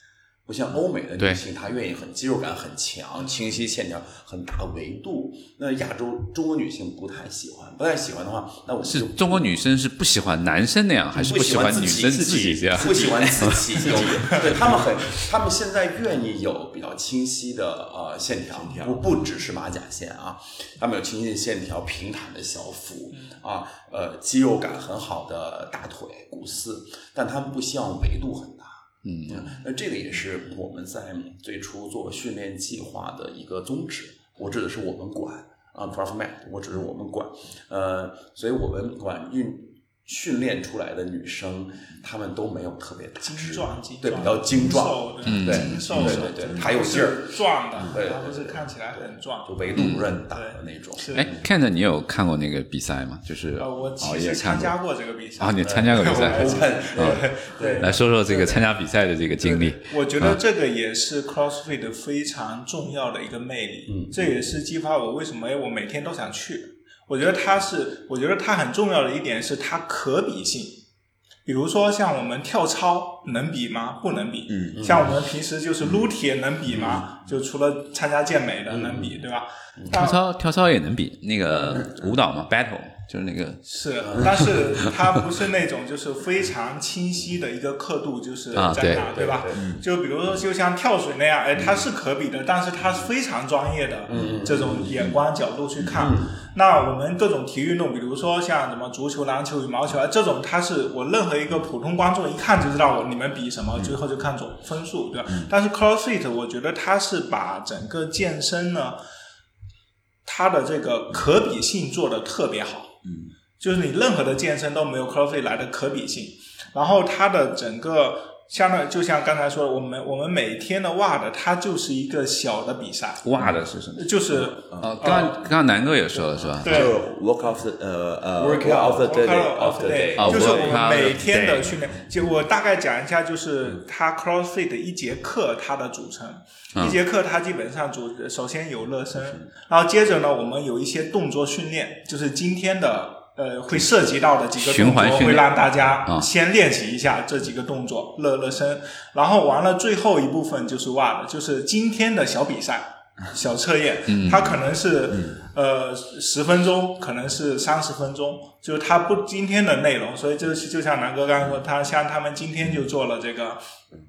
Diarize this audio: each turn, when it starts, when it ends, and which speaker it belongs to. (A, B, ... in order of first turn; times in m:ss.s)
0:00.4-0:09.4 A
0:08.8-0:14.1 B
0:11.1-0:47.3 A
0:12.7-0:14.9 C
0:18.5-0:19.1 C
0:29.0-0:29.5 B
0:43.2-0:49.8 D
0:45.2-0:46.3 B
0:45.4-0:46.6 C
0:47.9-0:48.7 A
0:49.4-0:51.5 A
0:49.7-0:50.0 B
0:50.3-0:51.3 D
0:51.1-0:54.7 B
0:53.6-0:58.6 D
0:55.4-1:00.4 B
0:55.6-0:57.9 A
0:59.3-1:10.8 D
1:03.9-1:04.3 A
1:11.4-1:20.2 D
1:14.5-1:15.1 C
1:14.7-1:15.1 A
1:16.7-1:17.0 A
1:18.7-1:19.0 A
1:19.9-1:23.6 B
1:23.6-1:49.0 D
1:24.0-1:24.8 A
1:28.5-1:29.1 B
1:28.8-1:29.6 A
1:29.6-1:29.8 C
1:34.1-1:35.1 A
1:35.8-1:36.4 A
1:50.2-1:52.9 D
1:53.0-1:53.3 C
1:53.6-2:03.3 D
2:03.2-2:04.1 B
2:04.0-2:05.4 D
2:04.5-2:05.3 C
2:04.8-2:06.9 B
2:06.3-2:09.3 C
2:06.6-2:06.9 D
2:08.4-2:10.8 A
2:09.0-2:43.6 D
2:10.2-2:11.7 B
2:24.6-2:26.3 B
2:34.1-2:34.5 B
2:35.1-2:35.4 C